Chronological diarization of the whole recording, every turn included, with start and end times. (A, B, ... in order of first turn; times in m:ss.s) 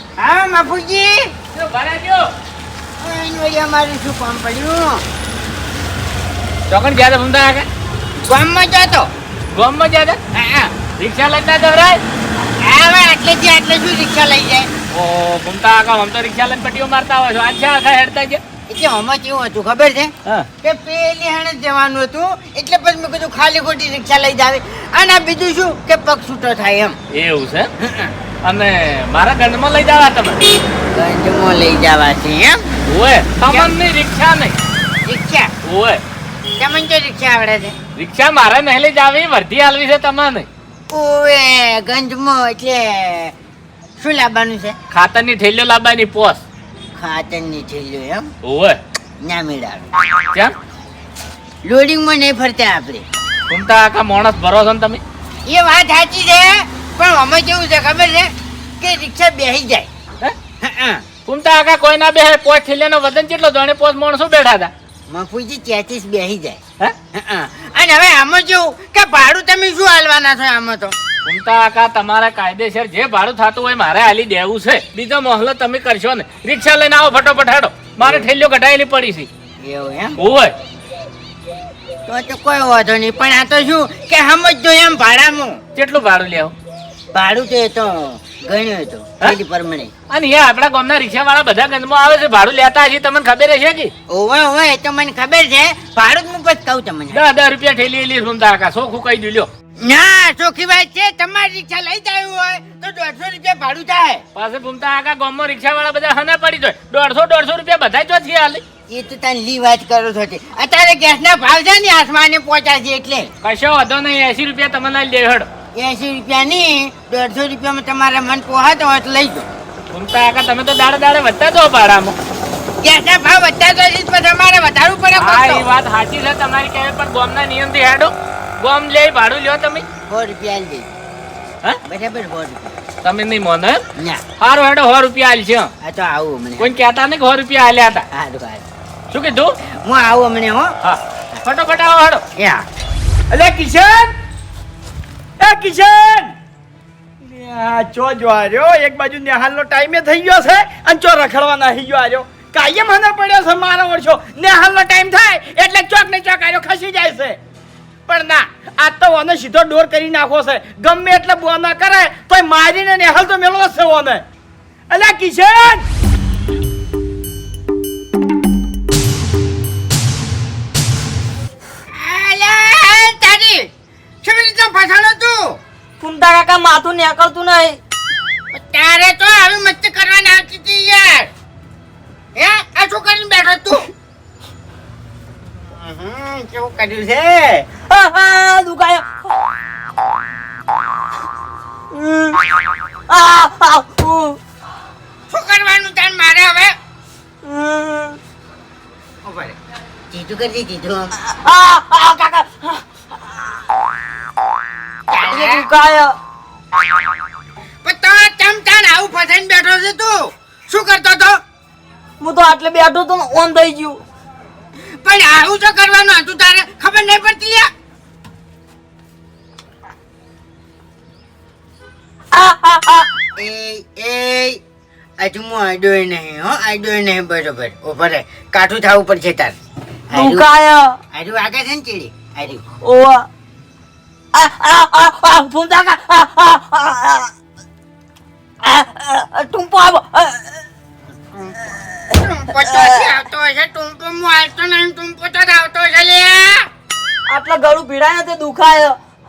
0:00.2-0:01.3 A
0:01.5-0:02.3 B
0:03.0-0:05.0 A
0:06.7-0:07.7 B
0:08.2-0:09.1 A
0:09.5-0:10.2 B
0:10.3-0:10.7 A
0:10.9-0:12.0 B
0:12.6-0:14.7 A
0:14.9-0:18.4 B
0:18.7-0:27.0 A
0:27.1-0:27.7 B
0:27.8-0:28.1 A
0:28.4-0:30.5 B
0:30.9-0:32.6 A
0:32.9-0:34.6 B
0:33.5-0:33.7 A
0:35.0-0:35.5 A
0:35.6-0:36.0 B
0:36.6-0:37.8 A
0:38.0-0:40.5 B
0:40.9-0:43.3 A
0:44.0-0:44.8 A
0:44.9-0:46.4 B
0:47.0-0:48.3 A
0:48.4-0:48.8 B
0:49.2-0:49.9 A
0:51.6-0:53.1 A
0:53.5-0:55.0 B
0:55.4-0:59.9 A
1:00.6-1:01.0 A
1:01.2-1:04.7 B
1:05.1-1:06.6 A
1:07.1-1:10.9 A
1:11.2-1:19.3 B
1:18.0-1:18.2 A
1:19.6-1:20.2 A
1:20.2-1:20.5 B
1:22.1-1:25.6 A
1:25.8-1:26.5 B
1:27.1-1:29.9 A
1:30.1-1:33.9 B
1:34.1-1:37.2 A
1:37.1-1:39.5 B
1:39.8-1:44.2 A
1:44.4-1:48.6 B
1:48.9-1:53.3 A
1:53.4-1:55.5 B
1:55.7-1:59.5 A
1:59.9-2:02.2 B
2:02.8-2:05.6 A
2:05.2-2:09.8 B
2:10.1-2:10.9 A
2:11.8-2:12.8 A
2:13.0-2:13.8 B
2:14.0-2:14.2 A
2:14.4-2:15.7 B
2:15.8-2:16.7 A
2:16.6-2:18.0 B
2:18.1-2:18.7 A
2:19.1-2:19.6 B
2:19.7-2:20.7 A
2:20.8-2:22.2 B
2:22.4-2:22.6 A
2:23.3-2:24.1 C
2:25.4-2:26.3 C
2:27.2-2:37.4 C
2:38.1-2:44.2 C
2:44.9-2:45.8 C
2:51.9-2:53.7 A
2:54.2-2:55.6 A
2:56.0-2:57.8 D
2:58.5-3:01.3 A
3:02.4-3:03.9 A
3:05.7-3:07.7 A
3:07.9-3:09.4 D
3:11.9-3:12.5 D
3:13.1-3:14.4 D
3:15.3-3:16.8 A
3:17.4-3:18.2 D
3:19.2-3:19.6 A
3:20.1-3:21.1 A
3:21.2-3:23.5 D
3:25.1-3:25.6 A
3:25.1-3:26.1 D
3:27.8-3:31.4 A
3:32.2-3:34.0 D
3:35.0-3:37.7 A
3:42.3-3:43.1 D
3:43.4-3:44.6 A
3:45.2-3:49.6 A
3:50.1-3:50.4 A
3:50.1-3:51.0 D
3:51.1-3:52.6 A
3:52.8-3:53.3 D
3:54.3-3:57.3 D
3:58.6-4:00.6 D
4:01.3-4:01.6 A
4:01.6-4:03.2 D
4:02.2-4:06.7 A
4:07.3-4:09.0 D